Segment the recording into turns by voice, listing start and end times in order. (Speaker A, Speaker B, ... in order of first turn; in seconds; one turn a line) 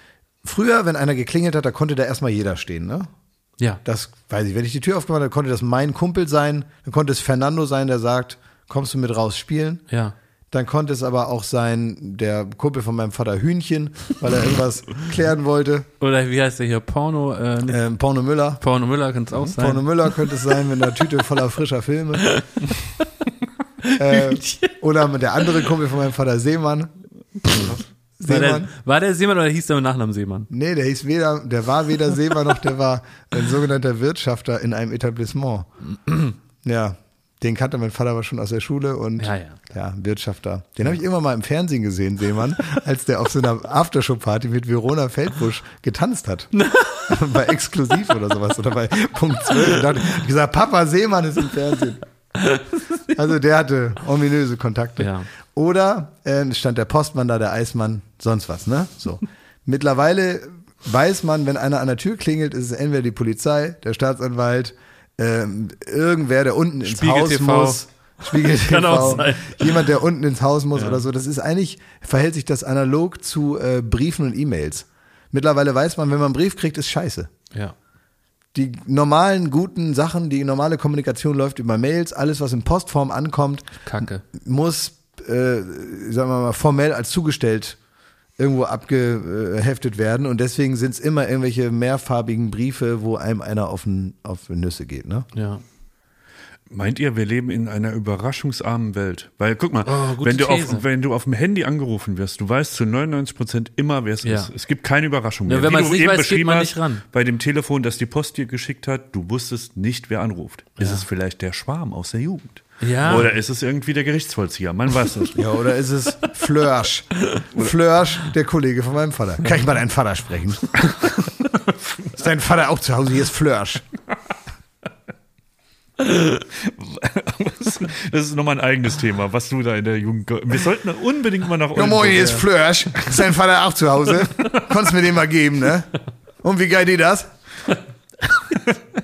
Speaker A: 0.4-3.1
Speaker A: 3.8-9.8
Speaker B: 9.9-10.1
Speaker A: 10.5-15.9
Speaker B: 16.0-17.8
Speaker A: 17.6-18.6
Speaker B: 18.6-20.5
Speaker A: 19.4-22.4
Speaker B: 22.2-23.1
Speaker B: 23.8-24.8
Speaker A: 23.9-26.9
Speaker B: 27.4-30.5
Speaker A: 28.2-28.7
Speaker A: 30.5-35.7
Speaker A: 36.6-46.5
Speaker B: 39.2-39.6
Speaker B: 46.5-47.3
Speaker A: 47.0-52.0
Speaker B: 52.4-53.1
Speaker A: 53.1-77.3
Speaker B: 55.0-55.3
Speaker B: 66.8-69.9
Speaker B: 70.7-71.0
Speaker A: 78.5-87.8
Speaker B: 83.8-84.2
Speaker A: 88.4-95.3
Speaker B: 95.3-95.6
Speaker C: 96.7-115.4
Speaker B: 99.8-100.8
Speaker B: 104.2-104.5
Speaker B: 105.5-107.0
Speaker B: 110.8-111.0
Speaker B: 112.8-113.3
Speaker A: 115.3-120.8
Speaker A: 122.1-123.8
Speaker C: 126.0-132.5
Speaker A: 131.7-135.9
Speaker A: 136.4-137.3